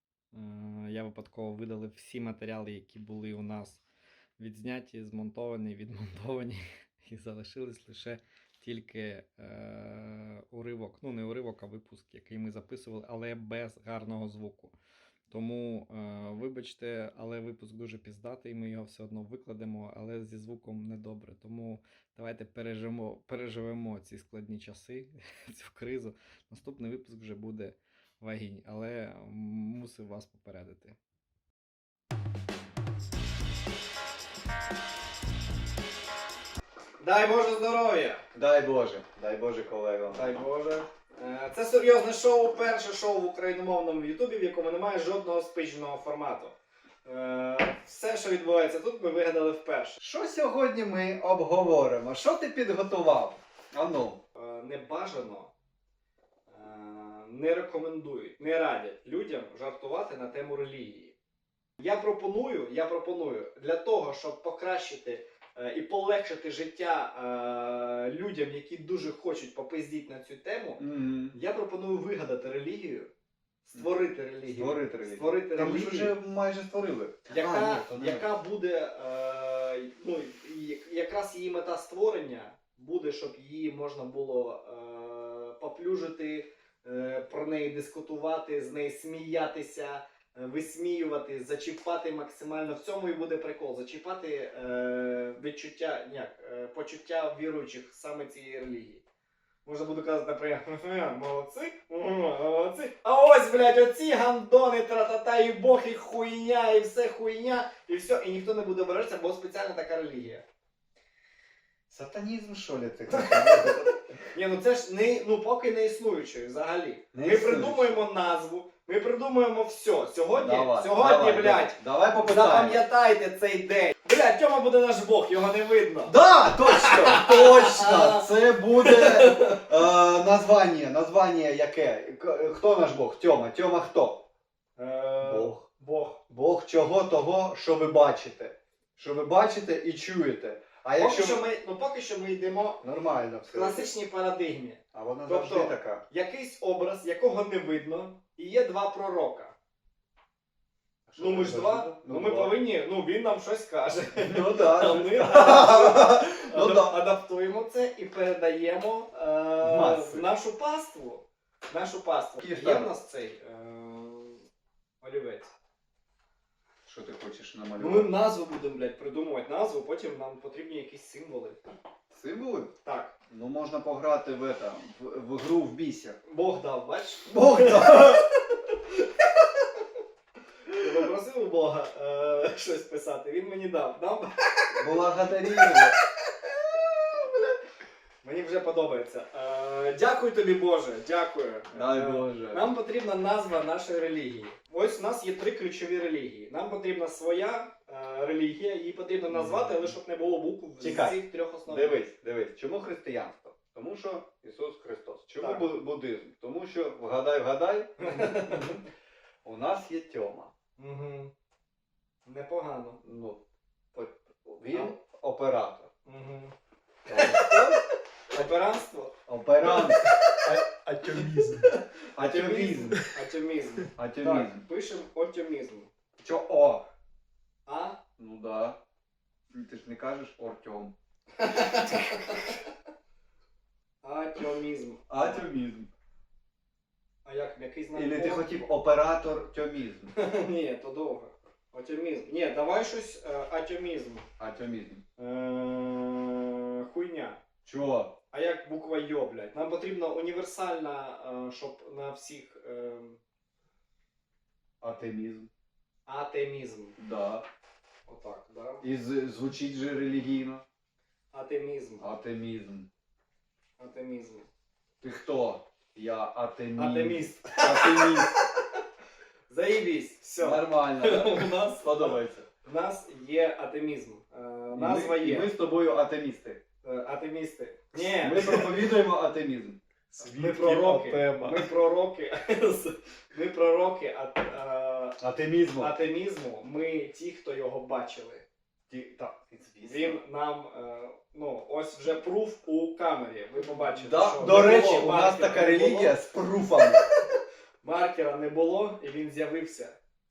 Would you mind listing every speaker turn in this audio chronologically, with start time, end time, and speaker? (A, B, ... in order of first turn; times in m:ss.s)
0:00.3-0:03.8 A
0:04.4-0:14.7 A
0:15.3-0:31.0 A
0:37.0-0:38.2 A
0:38.3-0:40.3 B
0:40.1-0:50.0 A
0:50.0-0:54.2 B
0:54.3-0:55.5 A
0:56.5-1:01.1 A
1:01.8-1:13.1 A
1:10.8-1:11.4 B
1:13.6-1:16.1 A
1:14.4-1:18.3 B
1:17.3-1:39.0 A
1:39.6-1:50.4 A
1:51.9-1:54.1 B
1:53.1-1:53.7 A
1:54.3-2:08.3 A
1:57.1-1:58.0 B
2:00.3-2:02.8 B
2:06.0-2:14.2 B
2:08.8-2:09.6 A
2:14.8-2:16.2 A
2:15.2-2:15.6 B
2:16.3-2:21.4 B
2:21.0-2:22.8 A
2:22.8-2:23.9 B
2:23.5-2:29.5 A
2:24.9-2:26.0 B
2:31.1-2:32.6 B
2:31.2-2:44.4 A
2:34.2-2:37.0 B
2:39.6-2:40.2 B
2:42.4-2:42.9 B
2:45.0-2:45.5 A
2:46.8-2:48.1 B
2:47.8-2:51.6 A
2:52.1-2:52.7 B
2:52.8-2:53.1 A
2:53.3-2:56.2 B
2:56.3-2:59.9 A
2:57.3-2:58.2 B
3:00.7-3:05.0 A
3:04.7-3:06.0 B
3:05.6-3:05.9 A
3:06.4-3:07.5 A
3:08.2-3:22.0 A
3:11.7-3:12.6 B
3:19.3-3:19.8 B
3:20.8-3:28.8 B
3:25.4-3:25.6 A
3:28.0-3:28.7 A
3:29.4-3:30.5 B
3:30.8-3:31.3 A
3:32.2-3:33.0 A
3:33.0-3:33.4 B
3:33.9-3:35.9 B
3:36.0-3:36.5 A
3:37.1-3:37.8 B
3:37.1-3:37.8 A
3:38.3-3:39.1 A
3:39.3-3:40.0 B
3:39.6-3:41.8 C
3:41.7-3:45.9 A
3:42.1-3:43.0 B
3:44.0-3:44.6 B
3:46.2-3:46.8 B
3:47.6-3:48.0 A
3:48.2-3:48.8 B
3:49.5-3:50.9 B
3:51.4-3:52.6 A
3:54.0-3:55.5 A
3:55.1-3:55.9 B
3:57.2-3:58.5 A
3:57.9-4:00.1 B
4:00.1-4:04.2 A
4:04.4-4:05.0 B
4:05.2-4:07.4 A
4:07.6-4:08.2 B
4:08.3-4:13.2 A
4:14.8-4:15.5 B
4:16.0-4:17.0 A
4:17.0-4:17.4 B
4:18.0-4:18.8 A
4:18.8-4:20.6 B
4:21.3-4:22.1 A
4:22.0-4:22.9 B
4:23.8-4:24.5 A
4:25.0-4:28.4 B
4:26.8-4:28.4 A
4:29.5-4:35.5 A
4:30.4-4:32.4 B
4:34.7-4:36.6 B
4:36.8-4:38.9 A
4:37.9-4:39.8 B
4:40.1-4:41.7 C
4:40.2-4:45.2 A
4:45.2-4:45.9 B
4:45.8-4:48.4 A
4:48.9-4:50.2 B
4:49.8-4:56.1 A
4:53.9-4:57.0 B
4:57.8-5:00.0 A